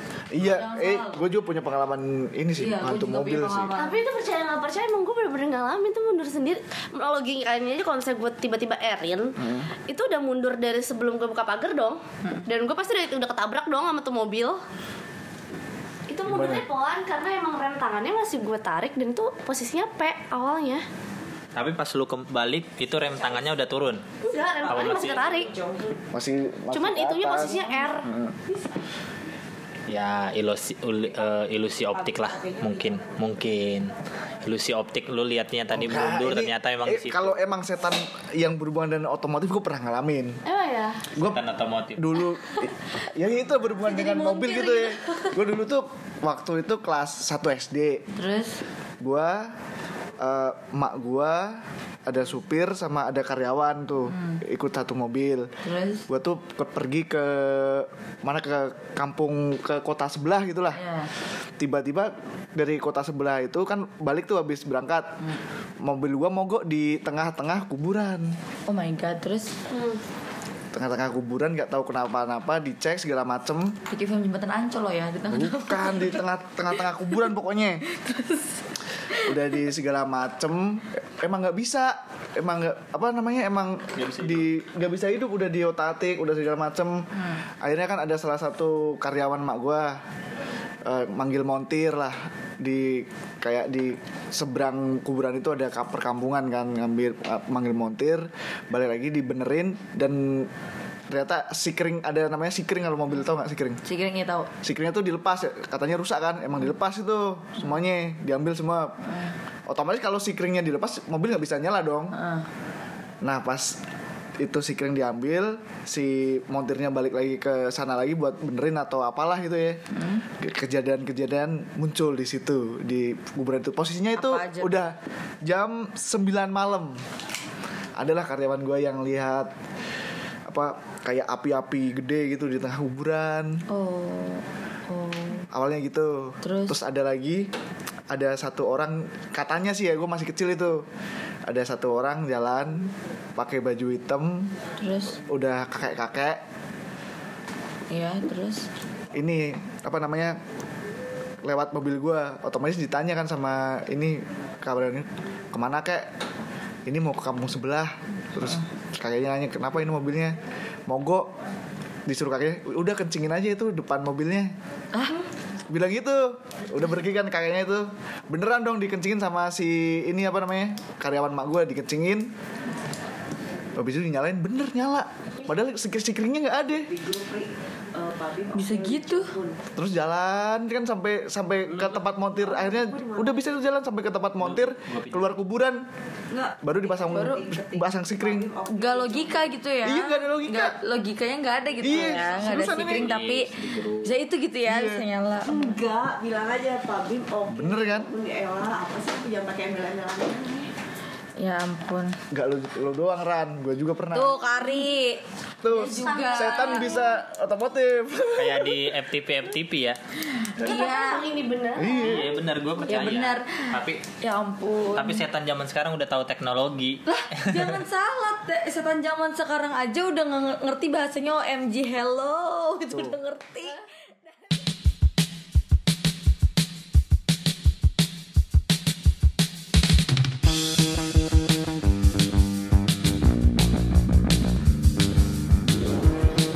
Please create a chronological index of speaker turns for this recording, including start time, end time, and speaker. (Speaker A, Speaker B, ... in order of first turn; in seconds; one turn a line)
Speaker A: 0.3-3.7
Speaker B: 0.4-1.2
Speaker B: 2.6-4.0
Speaker C: 3.7-14.6
Speaker A: 9.4-9.7
Speaker C: 16.1-20.8
Speaker A: 16.2-16.6
Speaker D: 21.5-24.0
Speaker C: 24.2-25.5
Speaker D: 24.6-25.5
Speaker E: 25.5-26.0
Speaker A: 26.1-28.3
Speaker C: 26.7-28.1
Speaker D: 29.9-37.4
Speaker A: 35.7-40.4
Speaker C: 40.5-41.1
Speaker A: 41.1-48.0
Speaker D: 41.2-42.2
Speaker C: 43.9-45.2
Speaker B: 48.1-48.6
Speaker A: 49.0-49.5
Speaker A: 50.2-55.5
Speaker B: 55.6-56.0
Speaker A: 56.1-60.8
Speaker B: 60.7-61.1
Speaker A: 61.6-65.1
Speaker A: 65.8-68.3
Speaker B: 68.7-69.5
Speaker C: 69.7-70.0
Speaker A: 70.7-73.7
Speaker B: 73.9-76.2
Speaker A: 75.3-77.8
Speaker B: 77.9-79.3
Speaker A: 79.2-90.0
Speaker D: 83.9-84.5
Speaker A: 90.8-100.5
Speaker A: 101.1-103.8
Speaker B: 103.8-104.5
Speaker A: 104.6-109.0
Speaker A: 109.7-112.2
Speaker B: 112.1-112.5
Speaker A: 113.2-113.8
Speaker A: 114.4-127.0
Speaker B: 124.2-124.8
Speaker A: 128.0-129.5
Speaker A: 130.5-133.6
Speaker B: 133.7-135.4
Speaker A: 135.5-137.5
Speaker B: 136.4-136.8
Speaker A: 138.1-140.8
Speaker A: 141.5-144.5
Speaker B: 144.8-145.2
Speaker A: 145.3-146.4
Speaker B: 147.9-148.7
Speaker A: 149.1-150.4
Speaker A: 151.4-156.1
Speaker A: 156.8-161.3
Speaker A: 162.1-164.5
Speaker A: 165.7-172.3
Speaker A: 173.7-176.9
Speaker E: 176.9-179.6
Speaker B: 178.5-179.3
Speaker A: 179.8-185.8
Speaker E: 182.6-183.3
Speaker D: 184.4-185.3
Speaker E: 186.3-186.6
Speaker A: 186.6-188.5
Speaker B: 187.1-187.5
Speaker E: 187.4-189.5
Speaker B: 188.7-193.5
Speaker A: 189.8-190.7
Speaker A: 191.8-193.1
Speaker D: 191.9-194.1
Speaker B: 194.0-195.8
Speaker A: 194.7-195.1
Speaker E: 195.5-200.7
Speaker A: 197.5-198.1
Speaker B: 201.4-202.2
Speaker A: 202.3-204.5
Speaker B: 204.1-206.9
Speaker A: 205.6-208.8
Speaker E: 206.1-206.7
Speaker D: 206.7-207.2
Speaker D: 208.3-210.0
Speaker B: 210.4-211.2
Speaker C: 210.6-212.2
Speaker A: 211.8-212.3
Speaker D: 212.0-214.0
Speaker B: 212.9-213.7
Speaker B: 214.2-215.2
Speaker D: 214.9-217.8
Speaker B: 217.1-223.8
Speaker A: 222.9-223.2